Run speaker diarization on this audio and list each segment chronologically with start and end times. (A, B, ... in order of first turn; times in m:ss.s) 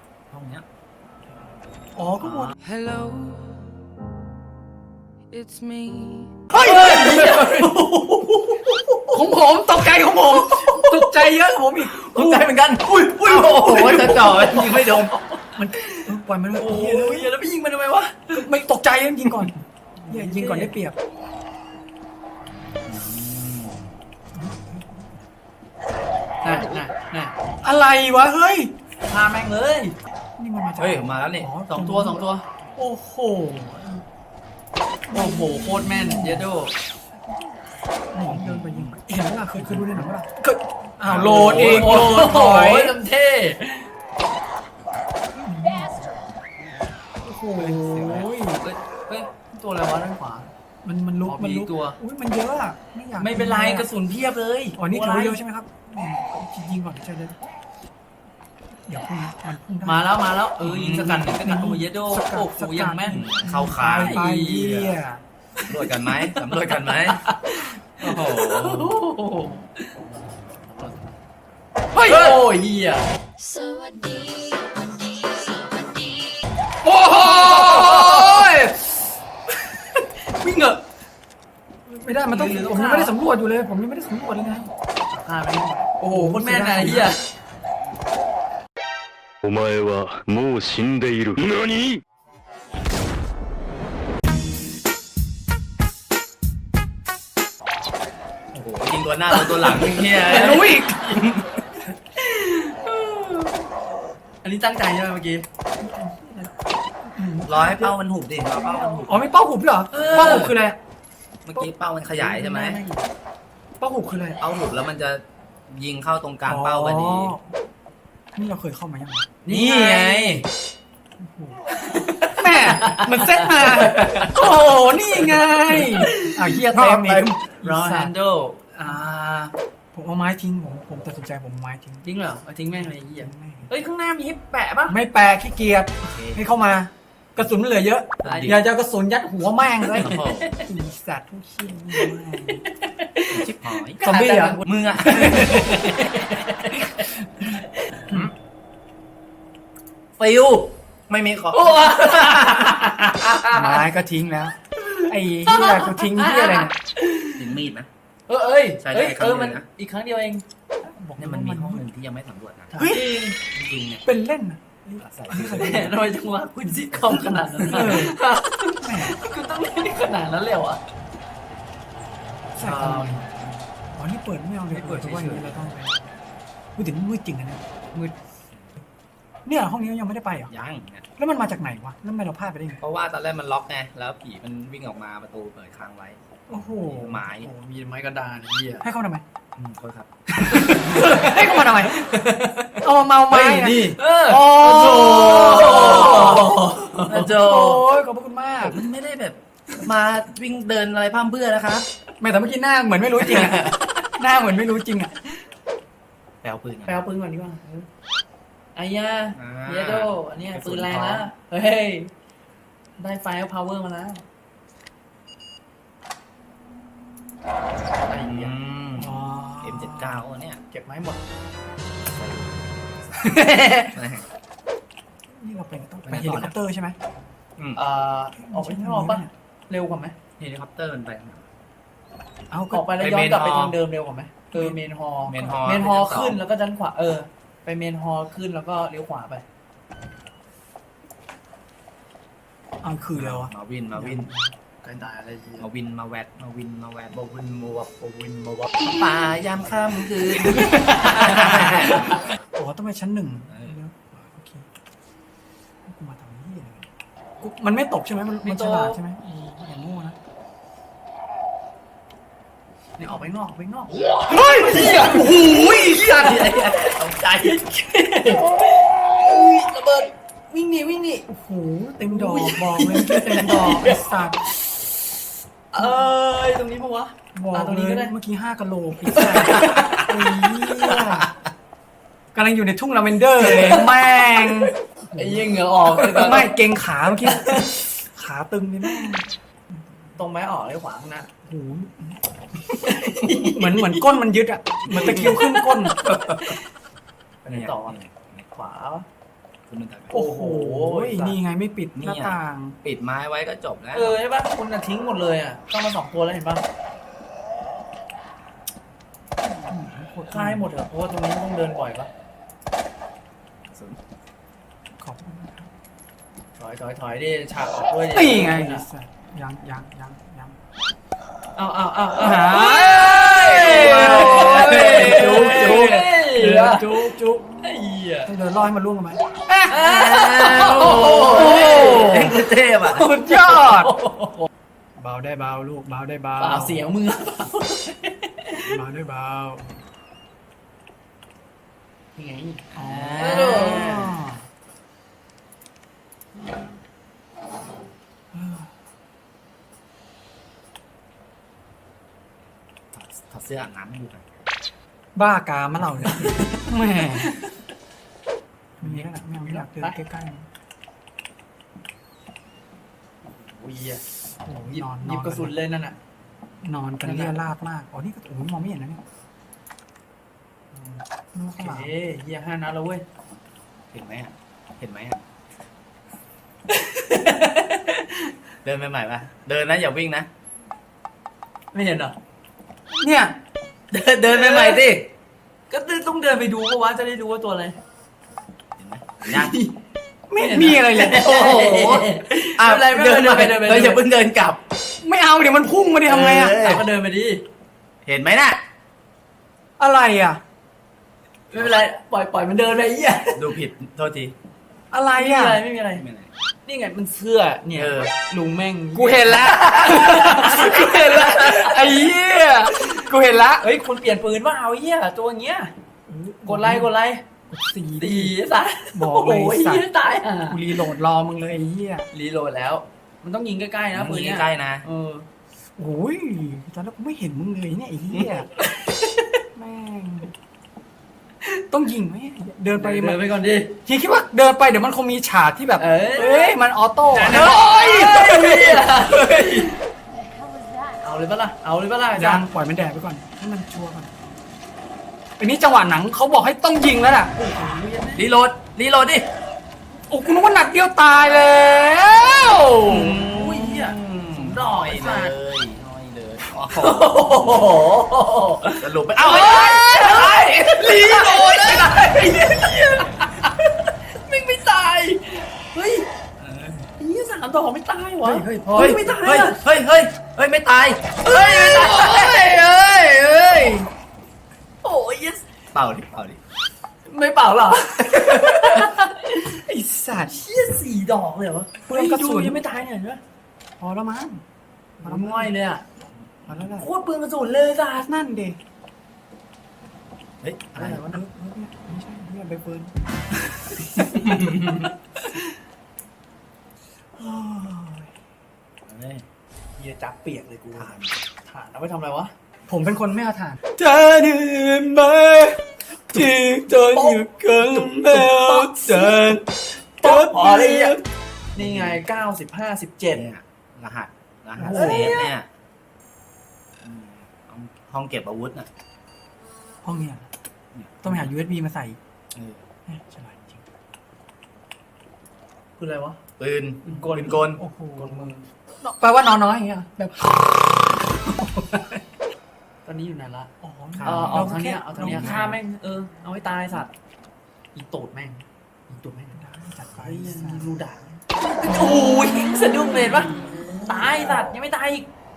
0:00.3-0:00.6 A
0:01.9-0:02.6 B
0:02.6-0:03.8 C
0:05.3-0:06.4 C
0:06.5-0:07.8 B
0:06.5-0:09.2 D
0:09.1-0:12.3 B
0:10.3-0:11.3 D
0:11.9-0:18.5 D
0:12.1-0:15.1 A
0:16.0-0:17.3 B
0:18.3-0:21.0 B
0:20.0-0:20.7 D
0:22.8-0:24.0 A
0:24.3-0:25.2 B
0:26.4-0:27.3 D
0:27.6-0:28.7 B
0:29.1-0:30.0 D
0:30.4-0:34.0 B
0:30.8-0:32.2 A
0:31.7-0:32.4 D
0:35.1-0:36.5 B
0:35.1-0:36.7 D
0:38.1-0:43.0 B
0:38.3-0:38.9 A
0:39.6-0:40.1 A
0:41.0-0:42.2 A
0:41.4-0:43.9 D
0:45.3-0:46.0 B
0:47.2-0:48.6 B
0:47.6-0:48.3 A
0:48.6-0:50.5 D
0:50.8-0:53.9 B
0:51.2-0:52.0 D
0:53.2-0:55.4 D
0:54.8-0:57.4 B
0:58.9-1:00.2 B
0:59.8-1:03.2 D
1:00.6-1:01.3 A
1:01.0-1:05.2 B
1:03.1-1:04.9 A
1:03.8-1:04.8 D
1:05.7-1:07.3 A
1:06.5-1:10.0 D
1:08.0-1:09.0 A
1:10.6-1:11.1 D
1:11.9-1:12.4 B
1:12.0-1:13.1 D
1:16.8-1:18.9 B
1:17.0-1:18.7 D
1:20.3-1:20.8 D
1:21.8-1:24.7 B
1:22.3-1:23.1 D
1:25.1-1:27.2 D
1:26.0-1:27.2 B
1:29.4-1:32.0 C
1:38.5-1:40.8 A
1:39.3-1:41.2 D
1:40.2-1:41.3 B
1:42.2-1:43.7 D
1:44.4-1:45.4 D
1:45.8-1:48.0 B
1:47.4-1:49.2 A
1:49.0-1:50.8 B
1:49.9-1:50.5 D
1:49.9-1:50.5 A
1:51.4-1:52.8 A
1:52.2-1:53.1 D
1:53.8-1:54.4 B
1:54.4-1:57.4 A
1:56.5-1:57.5 B
1:58.3-1:59.4 B
1:59.4-2:00.5 D
1:59.5-2:00.4 A
2:01.2-2:01.6 B
2:01.8-2:04.4 D
2:02.3-2:08.1 B
2:05.7-2:08.7 D
2:08.7-2:12.0 B
2:12.0-2:15.0 D
2:12.8-2:13.7 B
2:14.9-2:22.6 B
2:16.1-2:16.4 A
2:18.2-2:18.6 A
2:18.2-2:18.5 D
2:20.0-2:20.6 A
2:20.0-2:20.6 D
2:22.6-2:28.2 D
2:23.3-2:26.0 A
2:30.2-2:33.1 A
2:31.5-2:33.8 D
2:33.5-2:36.7 B
2:34.8-2:37.6 D
2:37.3-2:37.9 A
2:38.3-2:40.4 D
2:38.8-2:39.6 A
2:40.8-2:41.8 B
2:41.2-2:44.0 A
2:42.7-2:43.4 D
2:42.8-2:43.3 B
2:44.0-2:45.9 B
2:45.0-2:46.0 A
2:45.3-2:50.8 D
2:47.6-2:48.2 B
2:48.8-2:49.1 B
2:52.6-2:56.0 B
2:52.6-2:53.3 D
2:54.8-2:55.5 D
2:54.8-2:55.2 A
2:56.8-2:58.1 B
2:59.4-3:00.5 B
3:00.5-3:01.0 A
3:01.2-3:02.8 B
3:02.8-3:07.5 A
3:06.5-3:07.5 B
3:07.5-3:08.8 D
3:08.8-3:09.2 B
3:09.6-3:10.1 A
3:10.3-3:12.0 B
3:10.5-3:12.7 D
3:10.6-3:11.3 A
3:12.8-3:16.6 B
3:13.3-3:17.3 D
3:14.9-3:16.5 A
3:17.0-3:17.8 A
3:17.2-3:18.8 B
3:18.6-3:21.9 A
3:22.2-3:25.2 B
3:26.4-3:27.0 A
3:26.8-3:27.9 D
3:28.7-3:32.1 D
3:29.4-3:31.3 A
3:33.0-3:34.2 D
3:38.0-3:38.5 D
3:38.2-3:40.6 A
3:39.0-3:40.2 B
3:40.7-3:41.2 D
3:42.1-3:42.6 A
3:43.2-3:44.2 A
3:43.4-3:43.8 D
3:45.3-3:47.0 B
3:46.1-3:46.5 A
3:47.7-3:50.2 D
3:48.3-3:49.3 B
3:50.4-3:51.4 A
3:52.5-3:53.0 B
3:52.7-3:59.4 D
3:52.9-3:53.8 A
3:54.5-3:54.8 B
3:55.2-3:56.4 A
3:55.4-3:55.6 B
4:02.8-4:04.4 B
4:03.1-4:04.3 A
4:04.8-4:05.7 D
4:05.6-4:12.1 A
4:10.4-4:14.7 B
4:10.5-4:12.2 D
4:13.5-4:13.8 A
4:15.8-4:20.2 B
4:18.4-4:19.0 D
4:23.0-4:31.3 D
4:24.3-4:26.3 B
4:25.8-4:27.6 A
4:31.3-4:34.4 B
4:32.1-4:34.1 D
4:35.7-4:38.1 D
4:37.3-4:41.3 B
4:39.1-4:40.1 D
4:41.0-4:41.3 A
4:42.3-4:49.3 B
4:43.4-4:46.5 D
4:47.2-4:47.7 D
4:50.2-4:51.3 D
4:51.4-4:52.2 B
4:52.8-4:54.1 D
4:52.9-4:56.0 B
4:54.9-4:56.6 D
4:54.9-4:55.4 A
4:56.0-4:56.6 A
4:57.4-4:58.0 D
4:57.5-4:58.4 A
4:58.5-4:59.0 D
4:59.7-5:00.1 A
5:00.1-5:02.8 B
5:00.1-5:01.4 D
5:01.9-5:04.2 A
5:03.9-5:06.6 D
5:09.7-5:10.7 B
5:10.3-5:12.1 D
5:13.7-5:14.0 A
5:15.0-5:15.7 B
5:16.6-5:18.8 D
5:18.1-5:20.6 B
5:21.6-5:28.3 D
5:22.2-5:27.5 B
5:23.6-5:26.1 A
5:28.2-5:29.9 B
5:29.7-5:32.3 D
5:29.7-5:33.0 A
5:31.0-5:32.4 B
5:32.9-5:33.9 B
5:33.0-5:34.5 D
5:35.0-5:36.9 B
5:36.4-5:38.7 D
5:38.6-5:39.8 B
5:42.2-5:44.1 D
5:42.7-5:44.1 A
5:42.7-5:44.4 B
5:48.3-5:48.7 B
5:52.9-5:54.2 A
5:55.1-5:57.4 B
5:58.8-6:00.5 B
5:58.8-6:00.0 D
6:03.4-6:04.0 D
6:04.4-6:05.5 B
6:04.7-6:06.0 D
6:06.6-6:09.0 B
6:07.0-6:07.4 D
6:10.7-6:11.0 D
6:11.3-6:11.9 B
6:11.6-6:13.0 D
6:13.9-6:15.2 A
6:16.7-6:18.3 D
6:18.6-6:20.3 A
6:21.7-6:22.2 D
6:22.9-6:23.4 B
6:23.9-6:25.1 A
6:24.2-6:24.9 D
6:25.7-6:27.8 D
6:28.8-6:29.5 A
6:29.2-6:29.7 D
6:30.3-6:31.3 B
6:30.3-6:34.0 D
6:31.0-6:34.6 A
6:35.0-6:36.8 B
6:36.1-6:37.4 D
6:36.2-6:36.8 A
6:38.0-6:38.6 A
6:39.8-6:40.4 B
6:41.5-6:43.5 D
6:43.3-6:44.3 A
6:44.9-6:45.6 B
6:45.2-6:46.0 D
6:45.9-6:46.3 A
6:46.6-6:52.1 D
6:47.7-6:48.1 A
6:48.9-6:53.6 B
6:50.5-6:51.4 A
6:53.6-6:55.7 D
6:56.1-6:56.9 B
6:56.4-6:57.2 D
6:57.5-6:58.4 B
6:58.0-7:00.8 D
6:58.9-7:02.1 B
7:02.1-7:05.2 D
7:03.9-7:04.8 A
7:05.8-7:08.5 B
7:08.6-7:09.4 D
7:09.5-7:10.3 B
7:11.7-7:13.2 B
7:12.8-7:13.8 D
7:13.8-7:19.5 B
7:15.8-7:16.6 D
7:17.1-7:19.8 D
7:21.0-7:22.5 D
7:22.1-7:24.1 B
7:25.4-7:27.4 B
7:27.4-7:28.2 D
7:28.2-7:29.3 A
7:30.1-7:33.2 B
7:32.9-7:37.8 A
7:33.0-7:35.3 D
7:36.8-7:46.1 D
7:38.8-7:41.8 A
7:46.4-7:46.9 A
7:47.0-7:49.6 D
7:48.2-7:48.7 B
7:48.7-7:51.2 A
7:51.2-7:53.9 D
7:51.3-7:51.7 B
7:51.8-7:52.1 A
7:54.8-7:55.4 D
7:55.7-7:56.4 A
7:57.0-7:59.6 D
7:59.4-8:00.4 B
8:00.2-8:03.2 D
8:01.9-8:02.6 B
8:03.8-8:04.4 B
8:05.0-8:05.8 D
8:05.0-8:05.5 B
8:06.5-8:06.9 B
8:06.8-8:08.1 D
8:08.1-8:08.6 B
8:10.4-8:11.2 A
8:10.8-8:11.1 D
8:10.8-8:12.9 B
8:13.7-8:14.5 B
8:14.3-8:14.9 A
8:17.1-8:18.1 B
8:18.9-8:19.2 A
8:19.8-8:22.3 D
8:20.8-8:21.1 A
8:22.7-8:31.0 B
8:26.7-8:29.4 D
8:30.0-8:31.0 D
8:31.5-8:33.3 D
8:31.6-8:32.0 A
8:33.1-8:35.4 A
8:34.6-8:35.2 B
8:34.6-8:35.3 D
8:36.8-8:38.7 A
8:39.8-8:40.3 B
8:40.7-8:41.3 A
8:41.0-8:42.0 B
8:42.3-8:42.6 A
8:42.9-8:43.6 B
8:45.8-8:46.2 D
8:46.4-8:47.6 A
8:46.8-8:48.4 D
8:47.4-8:52.0 B
8:52.8-8:56.9 D
8:53.6-8:55.5 B
8:54.0-8:55.6 A
8:57.7-8:59.4 D
8:59.3-9:00.7 B
8:59.9-9:05.1 D
9:01.6-9:04.3 B